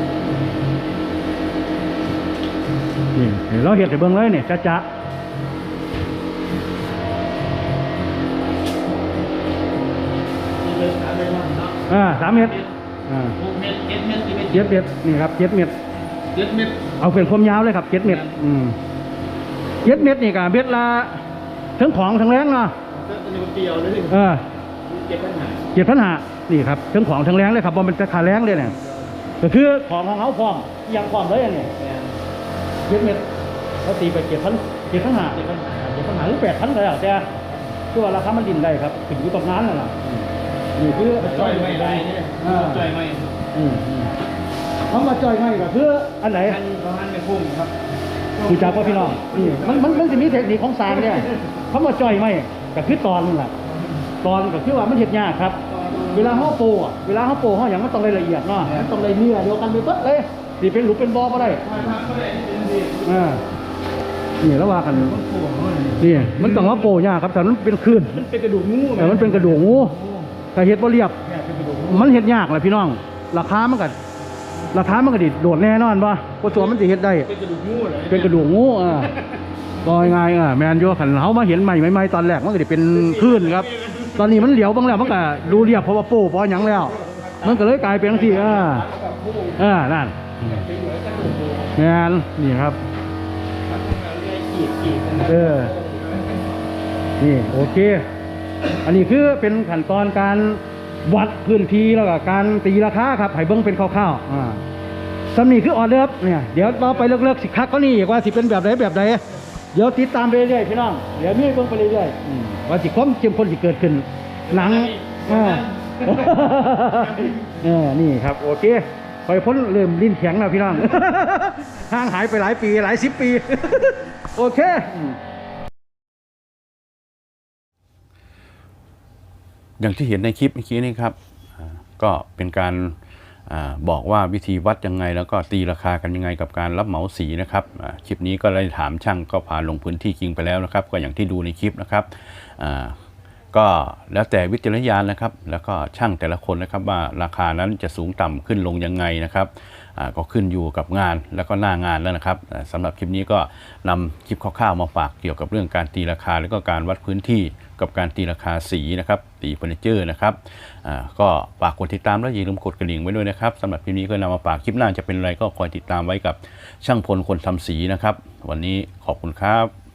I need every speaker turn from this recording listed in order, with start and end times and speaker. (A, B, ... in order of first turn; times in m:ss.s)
0:03.1-0:04.8 A
0:10.6-0:12.7 B
0:11.9-0:12.6 A
0:13.1-0:13.3 A
0:13.4-0:14.8 B
0:14.5-0:15.7 A
0:16.3-0:16.8 B
0:17.0-0:18.8 A
0:18.0-0:18.3 B
0:19.8-0:21.2 A
0:21.8-0:22.7 A
0:22.9-0:24.2 B
0:24.1-0:24.4 A
0:24.8-0:25.6 B
0:25.7-0:28.7 A
0:28.4-0:29.0 B
0:29.4-0:31.7 A
0:31.8-0:32.2 B
0:32.9-0:33.2 A
0:33.8-0:37.3 A
0:35.3-0:36.1 B
0:37.9-0:40.2 A
0:40.8-0:42.9 A
0:41.1-0:43.3 B
0:43.5-0:44.1 A
0:44.9-0:46.6 A
0:46.4-0:47.7 B
0:48.4-0:51.5 B
0:48.4-0:53.5 A
0:54.2-0:55.6 A
0:55.7-0:56.6 B
0:56.1-1:01.6 A
0:58.6-0:59.1 B
1:01.3-1:03.3 B
1:03.0-1:03.4 A
1:04.4-1:05.2 A
1:04.9-1:06.9 B
1:06.0-1:08.2 A
1:08.1-1:10.3 B
1:09.0-1:09.9 A
1:10.5-1:11.2 A
1:11.2-1:12.2 B
1:11.9-1:13.9 A
1:14.7-1:17.3 A
1:16.4-1:18.4 B
1:18.1-1:19.1 A
1:19.8-1:28.8 A
1:22.9-1:25.2 B
1:26.8-1:29.6 B
1:29.6-1:30.6 A
1:30.4-1:31.8 B
1:31.7-1:32.8 A
1:33.7-1:36.4 B
1:35.2-1:35.7 A
1:37.2-1:38.0 A
1:38.8-1:44.6 A
1:45.3-1:49.2 A
1:46.7-1:47.0 B
1:49.7-2:05.2 A
1:54.5-1:57.5 B
2:09.8-2:13.0 C
2:13.5-2:22.9 C
2:23.5-2:49.7 C